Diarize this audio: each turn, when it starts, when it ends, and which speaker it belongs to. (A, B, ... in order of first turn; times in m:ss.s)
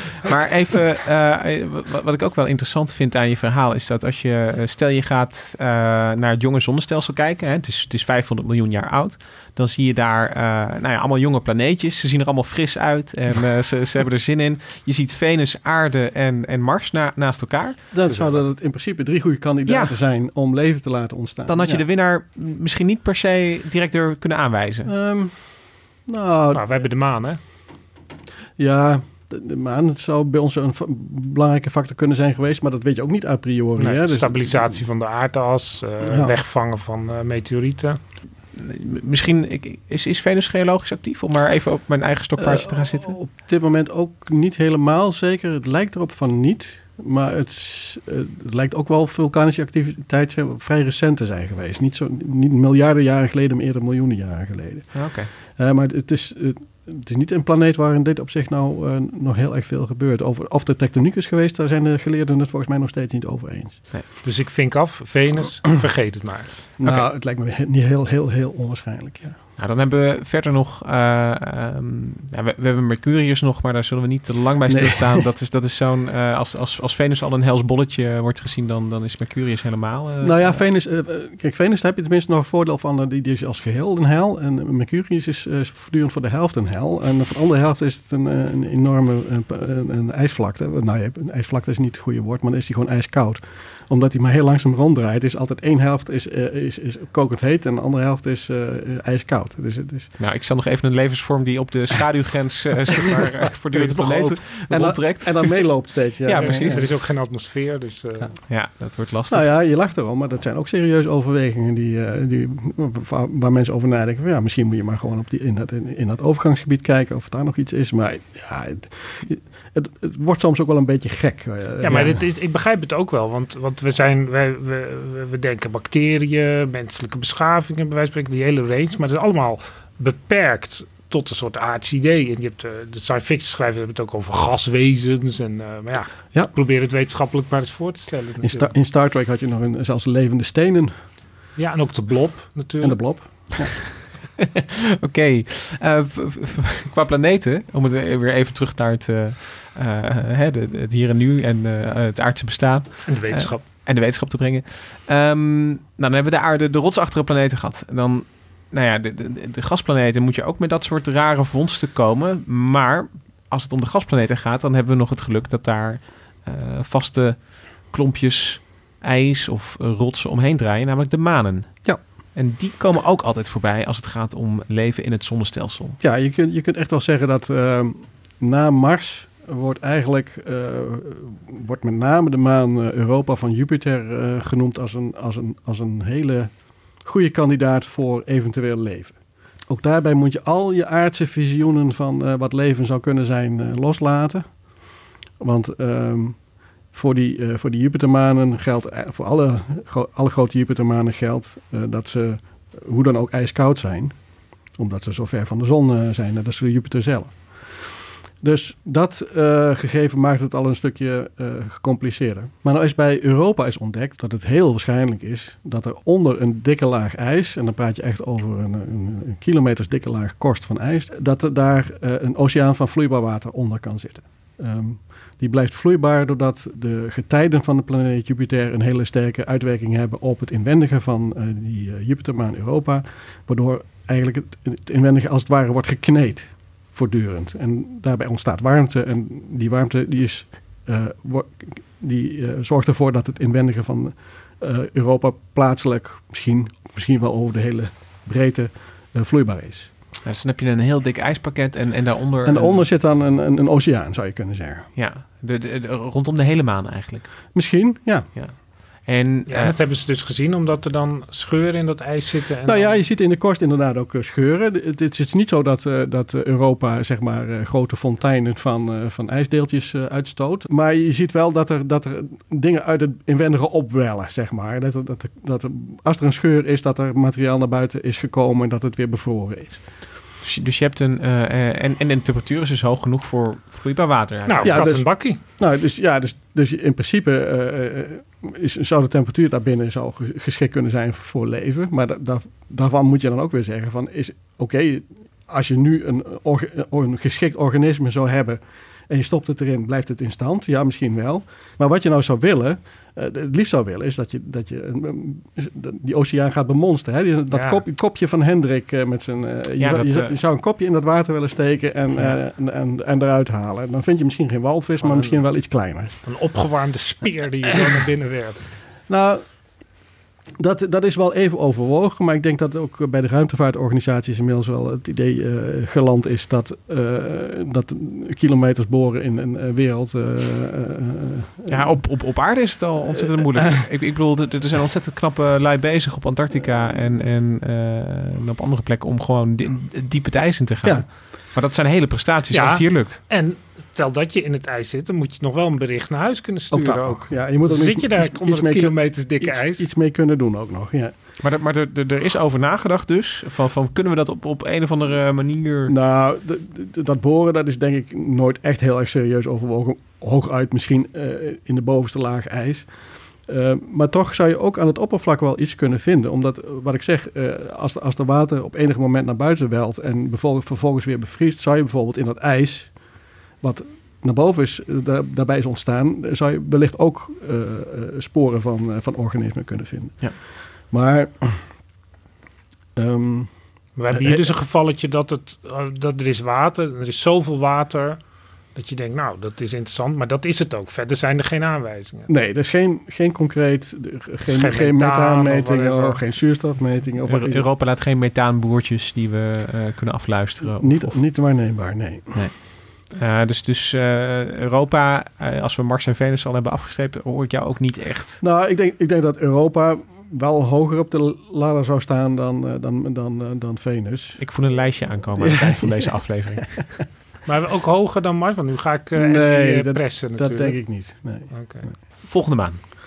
0:00.2-0:17.9 A
0:17.9-0:21.8 B
0:18.1-0:18.4 C
0:19.7-0:20.0 A
0:21.5-0:24.9 A
0:24.8-0:26.8 B
0:26.5-0:27.4 C
0:28.6-0:34.8 B
0:33.8-0:38.0 C
0:36.0-0:36.3 B
0:38.5-0:43.2 A
0:42.4-1:03.9 B
0:54.9-0:55.3 A
1:04.2-1:06.5 C
1:06.8-1:09.4 B
1:09.6-1:20.6 A
1:14.7-1:15.3 B
1:20.2-1:40.1 B
1:40.2-1:46.9 A
1:43.7-1:44.5 C
1:44.7-1:47.0 B
1:46.4-1:48.3 C
1:48.5-1:49.5 A
1:49.3-2:02.2 B
2:01.8-2:18.7 C
2:18.4-2:20.9 B
2:21.6-2:23.5 C
2:22.8-2:23.9 B
2:25.0-2:56.0 A
2:33.1-2:33.6 C
2:56.0-3:14.9 B
3:15.4-3:24.2 B
3:24.7-4:09.9 B
4:10.2-4:12.9 A
4:12.4-4:14.9 B
4:15.0-4:17.5 A
4:17.5-4:18.3 B
4:18.3-4:19.8 A
4:19.5-4:23.0 C
4:22.6-4:39.8 B
4:40.4-4:44.9 A
4:44.4-4:45.4 C
4:44.6-5:16.2 B
5:07.5-5:07.8 C
5:09.8-5:10.4 A
5:15.0-5:15.4 C
5:16.2-5:18.8 C
5:19.1-5:19.5 B
5:20.6-5:32.0 B
5:31.7-5:43.2 A
5:42.5-5:49.9 C
5:46.7-5:51.1 B
5:51.4-5:55.9 A
5:55.9-6:02.9 B
6:03.4-6:21.8 B
6:23.0-6:24.5 B
6:24.0-6:32.3 C
6:32.3-6:37.7 B
6:34.5-6:36.2 C
6:37.2-6:41.2 A
6:40.6-6:42.5 B
6:42.3-6:48.4 A
6:48.4-6:54.4 B
6:54.4-6:56.9 A
6:55.4-6:56.0 B
6:57.4-7:01.9 C
6:59.2-7:01.9 B
7:02.2-7:02.8 A